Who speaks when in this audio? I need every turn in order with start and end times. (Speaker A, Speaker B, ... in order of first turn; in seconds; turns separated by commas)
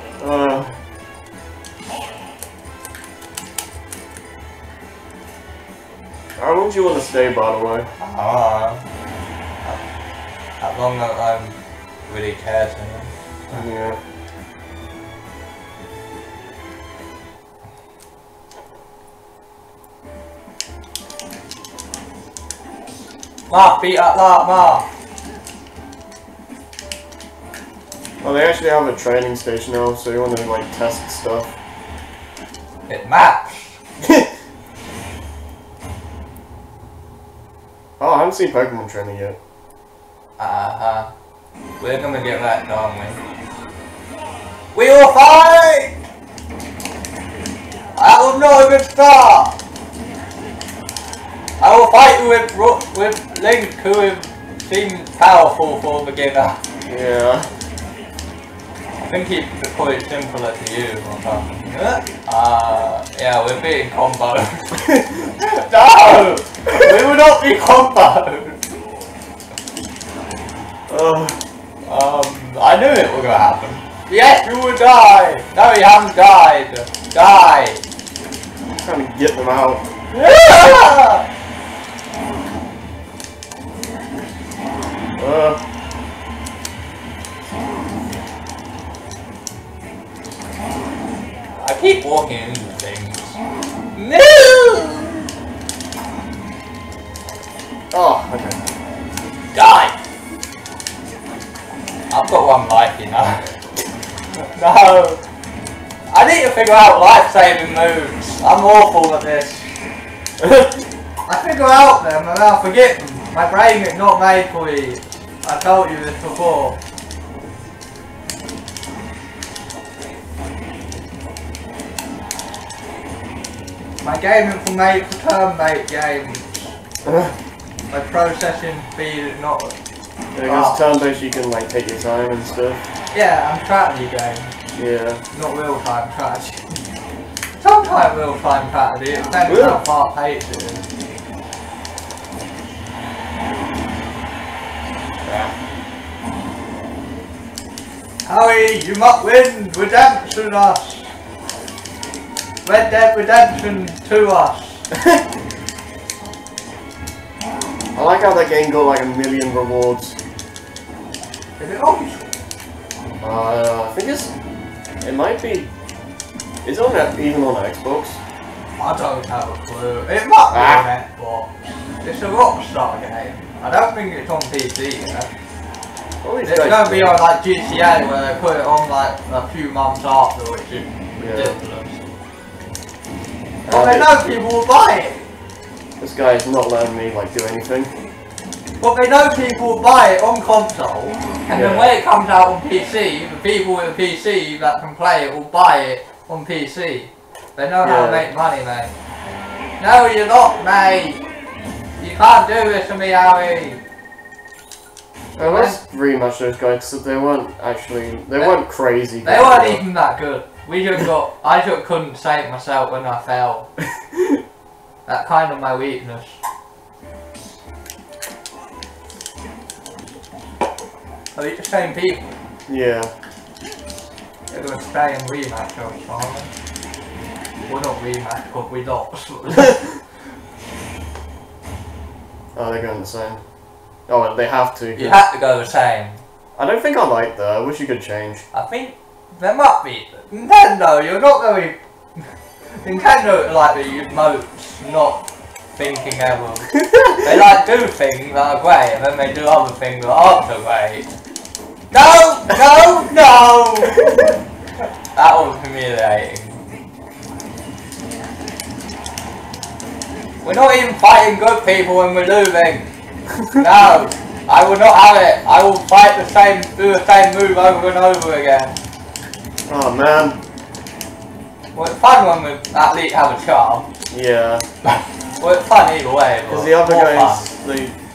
Speaker A: 0.2-0.8, Speaker A: 6.4-7.9, Speaker B: 8.0-8.8, Speaker B: 10.6-11.6, Speaker B: 12.1-13.6, Speaker A: 13.5-14.0, Speaker B: 23.5-24.9, Speaker A: 28.2-31.5, Speaker B: 32.9-33.8, Speaker A: 34.0-34.3, Speaker A: 38.0-39.4, Speaker B: 40.4-41.1, Speaker B: 41.8-43.2, Speaker B: 44.7-46.1, Speaker B: 48.0-49.6, Speaker B: 51.6-56.6, Speaker A: 56.9-57.5, Speaker B: 59.0-68.6, Speaker A: 64.8-65.1, Speaker A: 70.9-71.4, Speaker B: 71.9-77.8, Speaker A: 78.8-79.9, Speaker B: 80.1-81.3, Speaker A: 85.2-85.6, Speaker B: 91.6-93.4, Speaker B: 94.0-95.2, Speaker A: 97.9-98.6, Speaker B: 99.5-100.0, Speaker B: 102.1-103.5, Speaker B: 104.4-105.2, Speaker B: 106.1-109.8, Speaker A: 110.4-110.7, Speaker B: 111.3-116.8, Speaker B: 124.0-126.8, Speaker A: 127.0-127.3, Speaker B: 127.9-129.8, Speaker A: 130.3-132.9, Speaker B: 130.4-130.8, Speaker B: 133.1-134.5, Speaker A: 134.8-135.2, Speaker B: 135.3-136.8, Speaker B: 137.6-140.8, Speaker A: 139.4-139.8, Speaker A: 145.2-145.5, Speaker B: 148.2-151.1, Speaker B: 152.6-154.9, Speaker A: 155.0-155.2, Speaker A: 157.9-160.2, Speaker B: 161.6-162.4, Speaker A: 163.2-164.3, Speaker A: 165.0-165.7, Speaker A: 166.6-168.2, Speaker B: 168.8-175.3, Speaker A: 170.5-170.9, Speaker A: 176.2-177.1, Speaker B: 176.4-182.0, Speaker A: 181.2-181.6, Speaker B: 183.7-185.3, Speaker A: 183.7-184.1, Speaker A: 186.0-187.9, Speaker B: 188.8-198.9, Speaker A: 191.5-191.9, Speaker A: 197.8-198.3, Speaker B: 199.8-201.2, Speaker B: 202.0-203.8, Speaker A: 205.4-209.8, Speaker B: 205.4-205.8, Speaker B: 209.2-213.7, Speaker B: 215.1-216.4, Speaker B: 221.3-222.3, Speaker A: 222.7-223.1, Speaker B: 224.5-226.5, Speaker B: 227.7-229.9, Speaker A: 232.6-233.4, Speaker A: 234.1-235.2, Speaker B: 235.0-236.2, Speaker A: 236.6-238.4, Speaker B: 238.5-245.2, Speaker B: 245.8-251.1, Speaker A: 246.8-247.2, Speaker B: 251.9-254.3, Speaker A: 254.0-254.3, Speaker B: 254.8-256.6, Speaker B: 260.4-262.9, Speaker B: 263.5-268.8, Speaker A: 269.7-270.4, Speaker B: 271.8-273.9, Speaker A: 274.1-274.7, Speaker B: 274.9-277.5, Speaker A: 276.5-277.9